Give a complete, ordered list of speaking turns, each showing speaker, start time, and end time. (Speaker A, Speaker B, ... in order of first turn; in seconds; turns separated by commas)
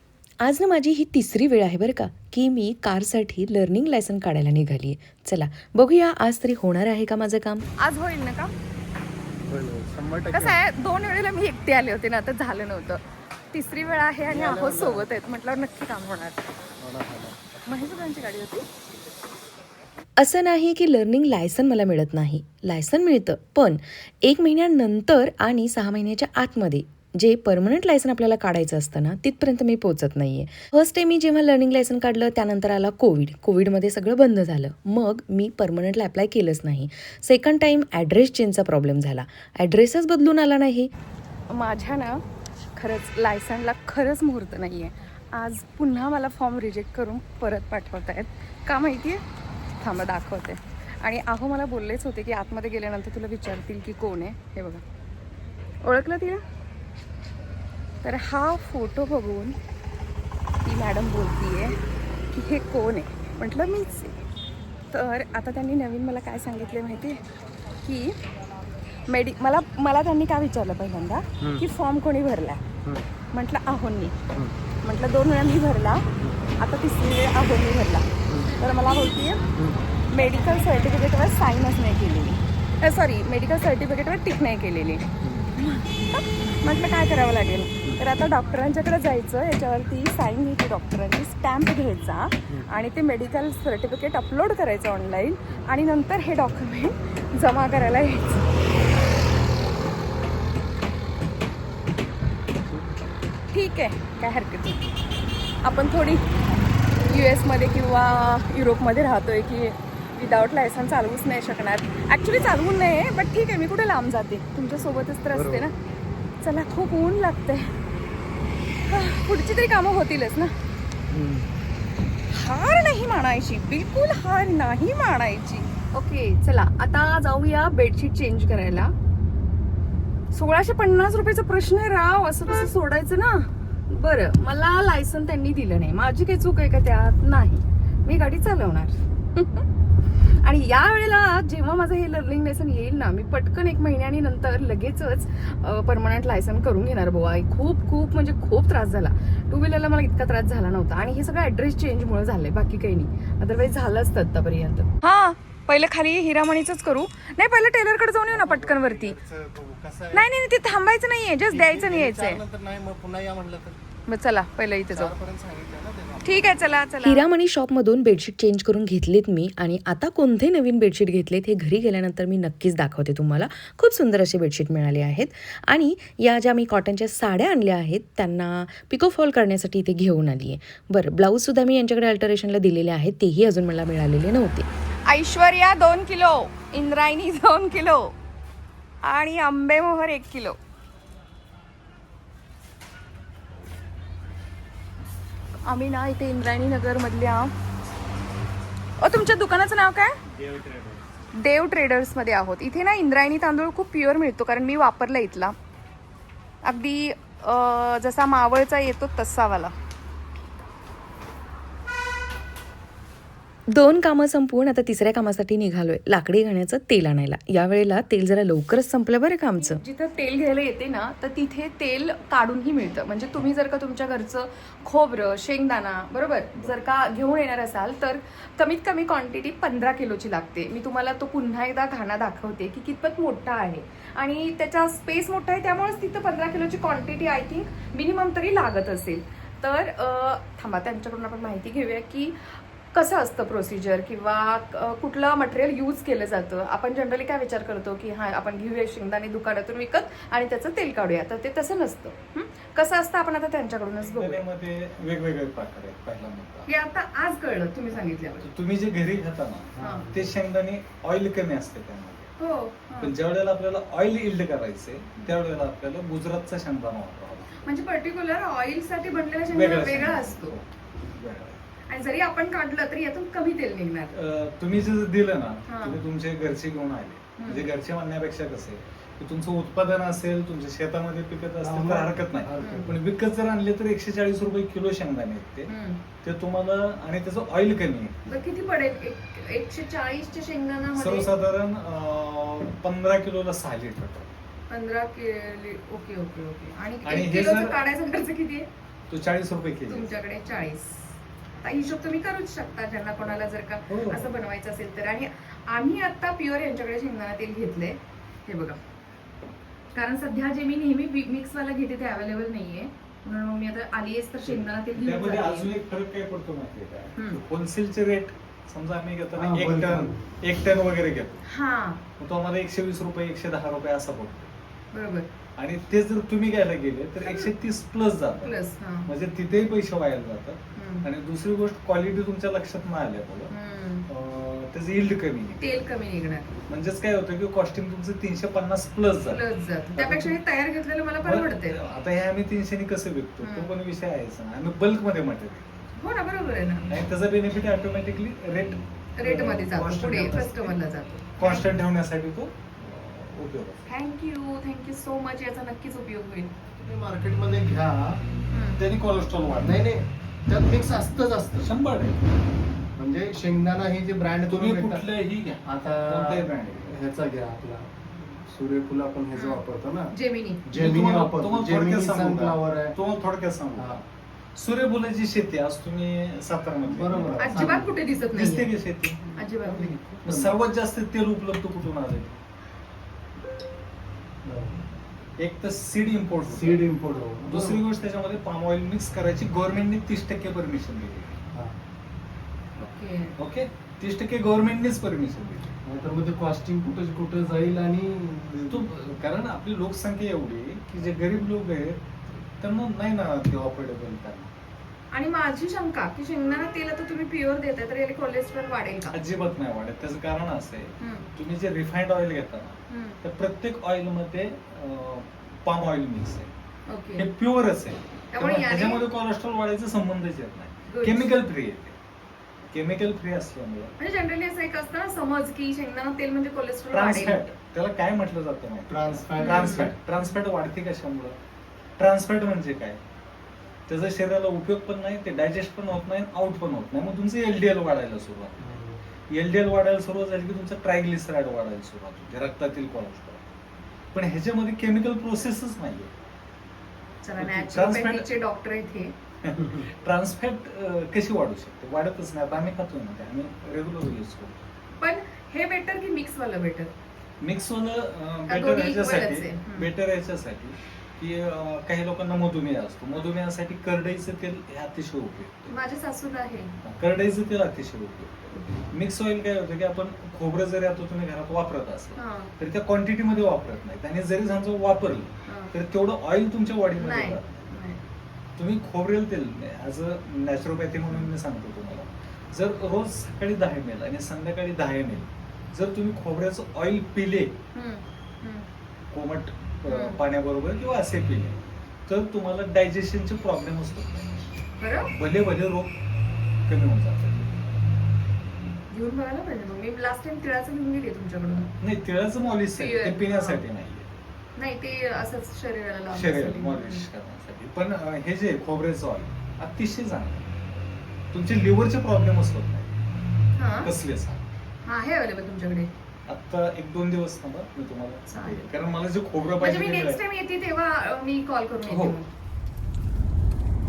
Speaker A: 0.4-7.7, Speaker B: 7.8-8.5, Speaker C: 9.5-10.6, Speaker B: 10.3-16.5, Speaker C: 14.3-15.1, Speaker C: 16.8-17.6, Speaker B: 17.6-18.7, Speaker A: 20.2-40.9, Speaker B: 41.5-42.2, Speaker B: 42.8-49.2, Speaker B: 49.8-54.8, Speaker B: 55.8-56.4, Speaker B: 58.0-59.6, Speaker B: 60.6-61.8, Speaker B: 62.3-64.2, Speaker B: 64.9-67.2, Speaker B: 67.8-68.2, Speaker B: 69.1-72.6, Speaker B: 73.3-74.2, Speaker B: 74.8-76.0, Speaker B: 76.6-78.1, Speaker C: 78.3-78.5, Speaker B: 78.6-79.5, Speaker C: 79.6-79.8, Speaker B: 80.1-98.5, Speaker B: 103.5-104.9, Speaker B: 105.6-106.2, Speaker B: 107.0-115.7, Speaker C: 115.3-115.7, Speaker B: 116.4-117.8, Speaker B: 118.9-120.5, Speaker C: 121.1-121.5, Speaker B: 122.3-128.9, Speaker B: 130.3-139.7, Speaker B: 140.2-159.2, Speaker C: 158.3-160.3, Speaker B: 160.1-162.4, Speaker C: 161.5-163.8, Speaker B: 164.1-165.1, Speaker C: 164.9-166.7, Speaker B: 166.2-167.3, Speaker A: 167.0-184.7, Speaker B: 185.1-188.1, Speaker B: 189.0-190.6, Speaker B: 195.7-197.5, Speaker B: 199.0-200.2, Speaker C: 200.5-200.9, Speaker B: 201.3-205.6, Speaker B: 206.7-209.7, Speaker A: 213.7-219.8, Speaker B: 219.6-254.4, Speaker D: 254.0-256.7, Speaker B: 256.7-258.4, Speaker D: 258.3-262.3, Speaker C: 259.8-260.3, Speaker B: 259.8-260.1, Speaker B: 262.4-263.1, Speaker D: 263.0-267.7, Speaker B: 267.6-270.6, Speaker D: 269.5-271.6, Speaker B: 271.9-274.1, Speaker D: 274.1-285.7, Speaker B: 275.7-276.0, Speaker B: 277.4-277.7, Speaker C: 281.6-283.0, Speaker B: 282.6-282.9, Speaker B: 285.7-286.0, Speaker D: 286.2-288.2, Speaker B: 288.3-291.3, Speaker D: 290.9-294.3, Speaker B: 294.7-298.7, Speaker D: 297.0-297.8, Speaker D: 299.1-300.2, Speaker B: 299.9-301.0, Speaker B: 301.6-308.8, Speaker D: 303.9-304.3, Speaker B: 309.9-315.7, Speaker D: 314.5-321.4, Speaker C: 319.4-320.2, Speaker B: 321.5-322.0, Speaker D: 322.2-324.5, Speaker B: 324.9-325.3, Speaker D: 325.6-328.6, Speaker B: 328.4-329.1, Speaker D: 329.1-333.5, Speaker B: 330.8-331.1, Speaker B: 333.5-334.1, Speaker D: 334.1-335.9, Speaker B: 335.6-336.5, Speaker D: 336.7-339.4, Speaker B: 339.3-341.8, Speaker D: 339.9-340.4, Speaker D: 341.2-345.9, Speaker B: 343.4-343.7, Speaker B: 346.0-346.9, Speaker D: 346.9-350.8, Speaker B: 349.2-351.7, Speaker D: 351.4-353.9, Speaker B: 353.9-356.5, Speaker C: 356.7-358.2, Speaker B: 358.5-358.8, Speaker D: 358.8-359.9, Speaker C: 359.6-361.8, Speaker D: 361.6-362.2, Speaker C: 363.0-365.1, Speaker D: 364.5-367.0, Speaker C: 365.6-370.1, Speaker B: 369.3-370.7, Speaker C: 370.7-373.0, Speaker D: 370.7-379.2, Speaker C: 376.9-378.0, Speaker B: 377.4-378.7, Speaker B: 379.3-380.0, Speaker C: 379.5-380.6, Speaker D: 380.2-382.4, Speaker C: 384.4-384.9, Speaker D: 385.4-386.9, Speaker C: 386.4-387.8, Speaker D: 387.4-391.4, Speaker B: 392.8-393.4, Speaker D: 393.4-395.8, Speaker C: 395.9-398.9, Speaker D: 398.7-404.5, Speaker B: 405.1-409.2, Speaker D: 409.1-416.5, Speaker B: 411.0-411.3, Speaker B: 412.9-413.2, Speaker B: 416.9-417.3, Speaker D: 417.2-422.0, Speaker B: 418.3-419.1, Speaker B: 420.9-421.4, Speaker D: 422.7-423.9, Speaker B: 424.0-427.4, Speaker D: 426.9-431.4, Speaker C: 428.9-429.9, Speaker B: 429.4-429.9, Speaker D: 432.0-433.0, Speaker D: 433.9-438.6, Speaker C: 438.6-439.1, Speaker D: 439.3-443.5, Speaker D: 444.1-446.1, Speaker B: 447.2-449.1, Speaker D: 447.4-448.3, Speaker D: 449.4-454.7, Speaker B: 455.0-456.9, Speaker D: 457.4-465.7, Speaker B: 458.5-459.9, Speaker B: 465.7-466.8, Speaker D: 466.8-477.7, Speaker B: 472.2-472.5, Speaker B: 475.5-475.7, Speaker B: 477.0-478.0, Speaker D: 478.6-487.6, Speaker B: 487.8-488.7, Speaker D: 489.1-494.4, Speaker B: 489.9-490.2, Speaker B: 494.8-495.1, Speaker D: 495.1-495.9, Speaker D: 496.7-497.7, Speaker B: 498.7-501.7, Speaker D: 501.8-504.1, Speaker B: 502.8-503.6, Speaker B: 504.6-507.1, Speaker D: 506.1-510.5, Speaker D: 511.3-513.0, Speaker B: 513.6-513.9, Speaker D: 513.8-514.4, Speaker B: 514.9-515.9, Speaker D: 516.3-520.2, Speaker B: 518.3-518.6, Speaker B: 519.6-522.3, Speaker D: 521.9-522.2